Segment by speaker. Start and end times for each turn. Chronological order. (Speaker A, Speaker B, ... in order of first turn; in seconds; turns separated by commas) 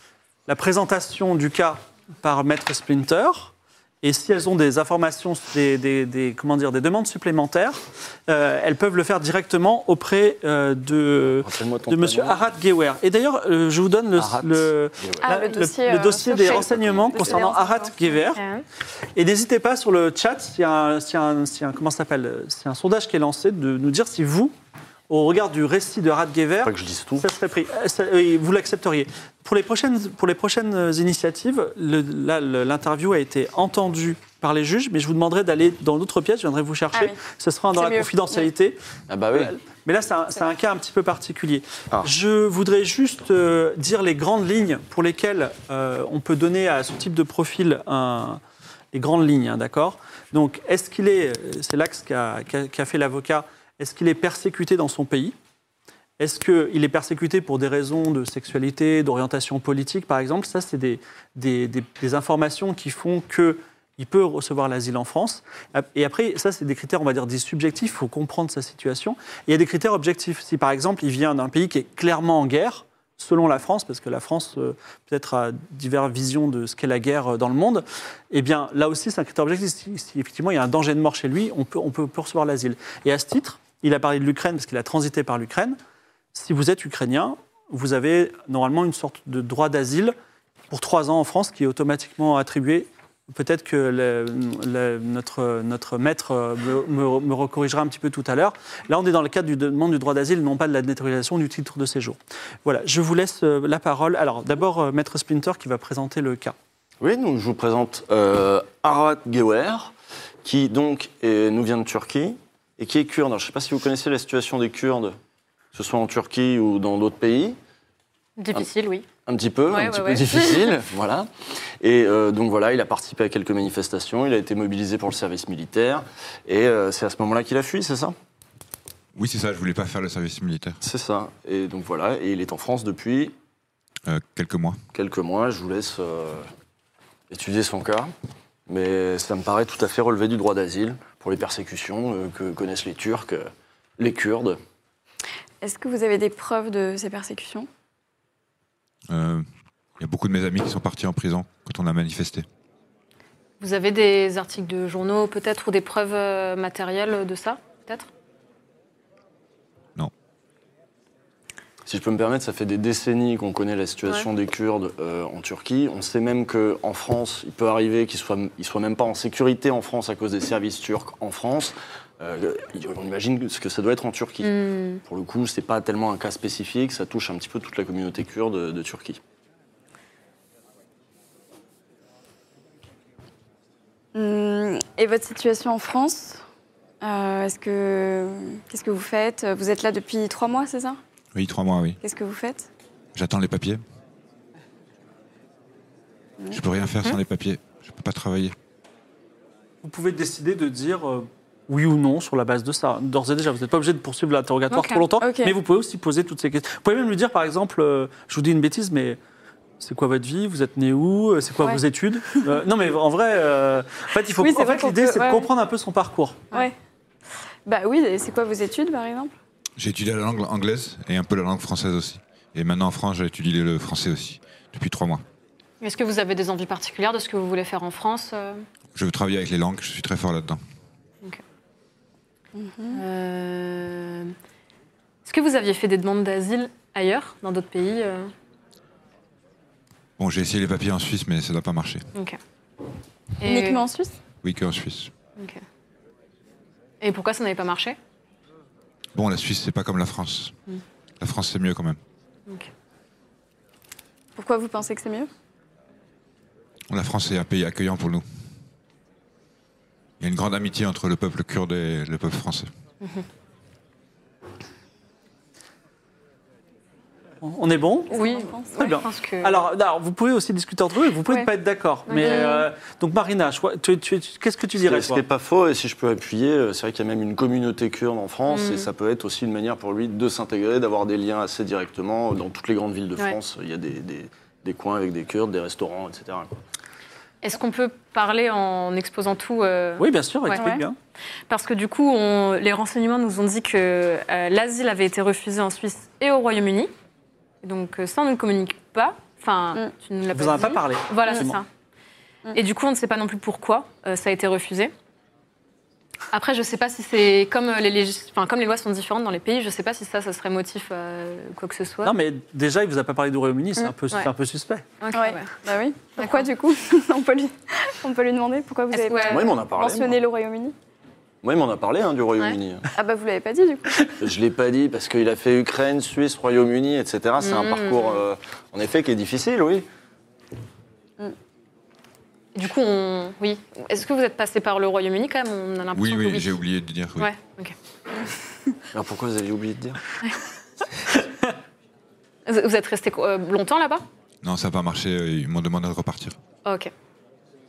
Speaker A: 0.5-18.4, Speaker B: 11.4-12.4, Speaker B: 14.2-15.3, Speaker C: 15.2-18.1, Speaker B: 16.4-17.2, Speaker D: 18.3-18.6, Speaker A: 19.1-24.5, Speaker A: 25.1-38.8, Speaker B: 26.6-27.2, Speaker C: 36.9-37.2, Speaker C: 37.7-38.5, Speaker B: 39.1-39.5, Speaker A: 39.3-48.4, Speaker A: 48.9-55.3, Speaker A: 56.2-85.8, Speaker A: 86.3-90.1, Speaker A: 90.7-106.5, Speaker B: 107.0-109.9, Speaker B: 110.4-115.2, Speaker B: 115.7-117.6, Speaker D: 118.4-119.0, Speaker B: 119.2-121.3, Speaker D: 119.7-120.7, Speaker B: 121.8-128.2, Speaker E: 129.1-130.8, Speaker B: 130.8-133.3, Speaker E: 134.1-134.8, Speaker B: 134.9-136.5, Speaker B: 137.3-138.1, Speaker B: 138.7-144.6, Speaker C: 145.6-147.7, Speaker E: 149.1-149.4, Speaker E: 150.0-152.4, Speaker D: 153.6-158.1, Speaker B: 161.8-179.2, Speaker D: 174.4-175.0, Speaker C: 184.1-186.4, Speaker C: 187.0-191.0, Speaker E: 191.3-192.0, Speaker C: 192.0-192.7, Speaker E: 193.1-193.8, Speaker E: 196.5-198.5, Speaker A: 199.8-209.2, Speaker D: 204.7-205.0, Speaker C: 205.2-205.6, Speaker A: 209.8-216.4, Speaker C: 214.4-215.5, Speaker C: 217.7-219.3, Speaker E: 219.8-225.2, Speaker D: 225.8-228.6, Speaker E: 228.9-230.6, Speaker C: 232.5-233.0, Speaker D: 232.9-234.3, Speaker D: 235.2-238.3, Speaker E: 240.2-242.0, Speaker D: 243.4-243.9, Speaker C: 243.4-244.1, Speaker E: 244.4-245.1, Speaker D: 245.4-245.6, Speaker D: 247.0-248.0, Speaker E: 249.1-250.5, Speaker E: 251.2-252.0, Speaker C: 254.3-255.3, Speaker E: 256.9-258.2, Speaker E: 260.2-262.7, Speaker A: 267.4-268.1, Speaker D: 268.1-269.6, Speaker C: 268.1-268.7, Speaker A: 268.8-275.2, Speaker D: 272.1-272.6, Speaker C: 272.2-272.5, Speaker B: 274.8-286.5, Speaker D: 278.5-278.9, Speaker D: 287.4-290.6, Speaker A: 290.0-291.0, Speaker C: 290.6-290.9, Speaker D: 291.5-296.9, Speaker D: 297.6-301.6, Speaker A: 300.3-301.6, Speaker D: 302.5-304.9, Speaker D: 306.3-312.1, Speaker A: 312.0-314.9, Speaker D: 315.0-315.5, Speaker C: 315.1-320.7, Speaker D: 316.2-316.5, Speaker D: 318.9-319.5, Speaker B: 319.3-320.2, Speaker B: 321.4-322.9, Speaker C: 322.9-324.1, Speaker B: 324.2-329.9, Speaker D: 327.4-328.2, Speaker D: 332.5-336.5, Speaker E: 335.9-337.3, Speaker D: 337.2-337.7, Speaker B: 338.9-340.0, Speaker D: 342.4-344.0, Speaker E: 344.4-346.4, Speaker D: 346.6-346.9